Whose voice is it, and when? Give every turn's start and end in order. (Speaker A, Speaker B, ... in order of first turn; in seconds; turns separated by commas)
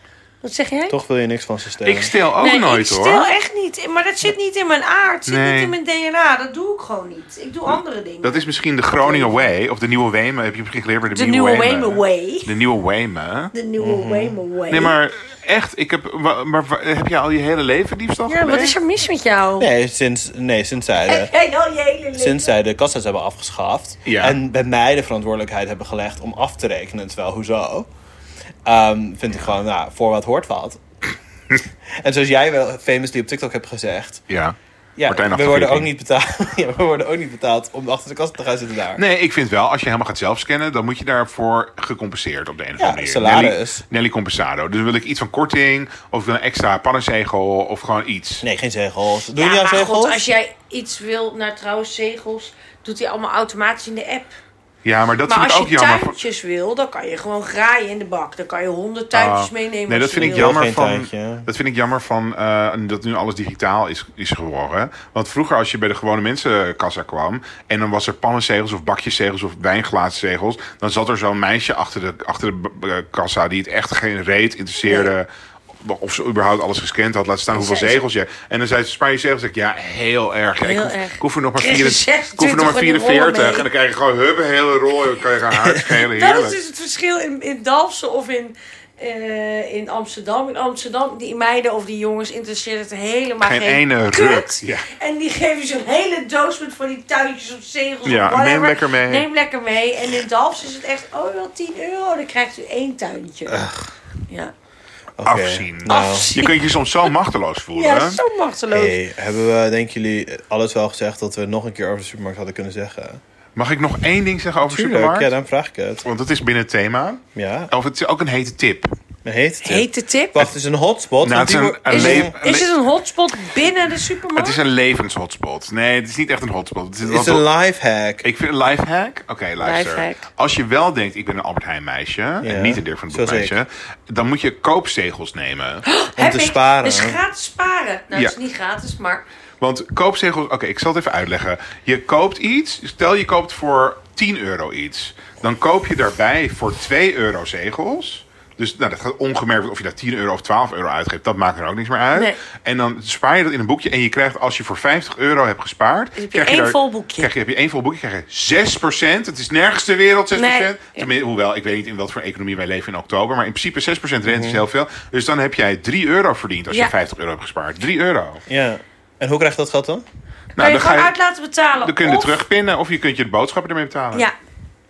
Speaker A: 0.4-0.9, Speaker B: 0.9-2.1, Speaker C: 1.8-3.3, Speaker A: 2.4-9.5, Speaker C: 5.3-5.8, Speaker C: 8.2-13.5, Speaker A: 11.1-12.5, Speaker A: 13.5-14.9, Speaker B: 13.8-14.4, Speaker C: 14.7-18.8, Speaker A: 18.3-19.7, Speaker B: 19.6-21.3, Speaker A: 21.1-22.6, Speaker B: 22.1-27.9, Speaker C: 24.0-24.4, Speaker B: 28.6-30.8, Speaker B: 31.9-34.2, Speaker C: 34.3-34.5, Speaker B: 35.0-39.0, Speaker C: 35.1-35.9, Speaker C: 38.9-48.5, Speaker B: 42.8-43.8, Speaker B: 48.4-50.2, Speaker A: 49.3-54.3, Speaker C: 54.8-56.1, Speaker A: 55.3-60.5, Speaker C: 59.1-75.3, Speaker B: 60.1-61.5, Speaker A: 74.8-75.1, Speaker C: 75.8-86.6, Speaker A: 77.5-78.0, Speaker A: 80.6-83.7, Speaker A: 86.0-103.7, Speaker C: 93.4-94.9, Speaker C: 98.0-99.3, Speaker B: 103.5-103.9, Speaker B: 105.2-106.3, Speaker C: 105.2-108.2, Speaker A: 105.8-106.6, Speaker A: 107.7-109.0, Speaker B: 108.7-113.2, Speaker C: 113.5-115.3, Speaker B: 114.7-116.0, Speaker C: 116.0-118.9, Speaker B: 117.3-117.7, Speaker B: 119.2-122.3, Speaker A: 119.6-120.5, Speaker C: 121.2-122.8, Speaker A: 121.9-124.6, Speaker C: 124.3-127.4, Speaker B: 127.0-128.2, Speaker C: 128.2-135.8, Speaker A: 129.6-130.2, Speaker B: 132.4-133.5, Speaker A: 135.8-139.2, Speaker B: 136.2-137.2, Speaker C: 138.1-138.4, Speaker C: 139.6-168.4, Speaker A: 156.2-157.3, Speaker A: 160.3-161.1, Speaker B: 164.3-164.6, Speaker B: 168.5-170.0, Speaker C: 170.6-171.1, Speaker A: 170.6-172.4, Speaker C: 171.8-174.3